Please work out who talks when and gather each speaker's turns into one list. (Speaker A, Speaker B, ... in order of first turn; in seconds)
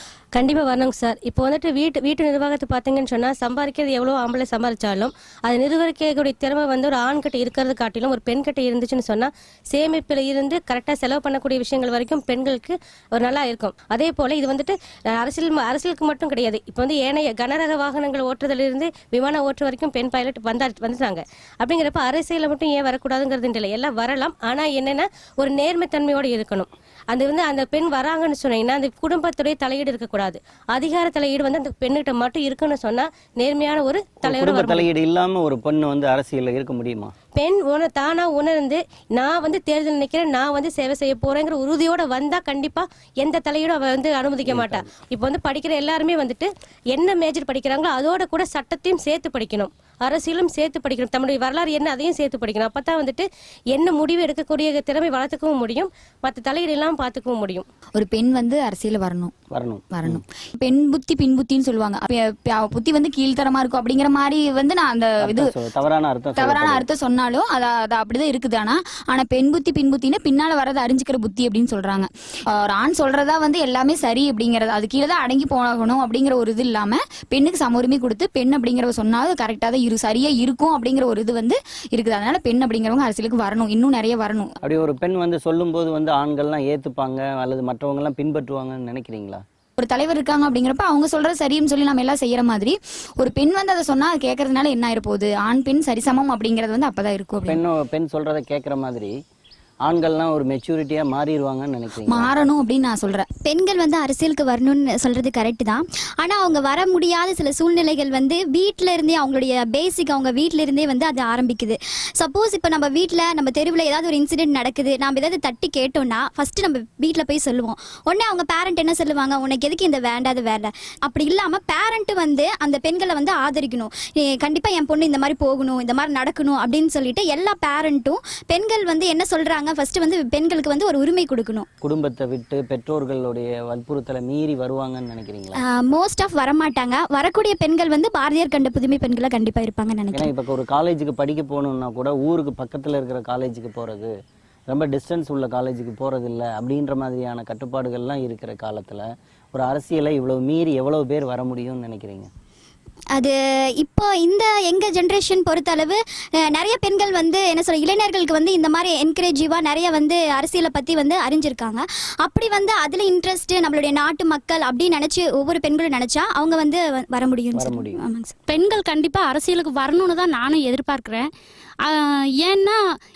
Speaker A: 0.3-34.9, 37.4-57.6
Speaker B: 34.2-37.1, 44.5-44.8, 59.5-60.2, 65.2-66.9, 84.7-89.4, 97.5-99.1, 99.9-102.3, 131.8-135.6, 140.1-144.1, 144.7-152.3, 167.5-168.0
Speaker C: 58.0-59.3, 59.9-65.5, 66.4-84.5, 89.8-97.6, 102.1-103.3
Speaker D: 103.5-131.7, 135.7-140.3, 153.2-155.9, 156.5-156.9, 157.5-168.3
Speaker E: 168.5-171.3, 171.8-172.8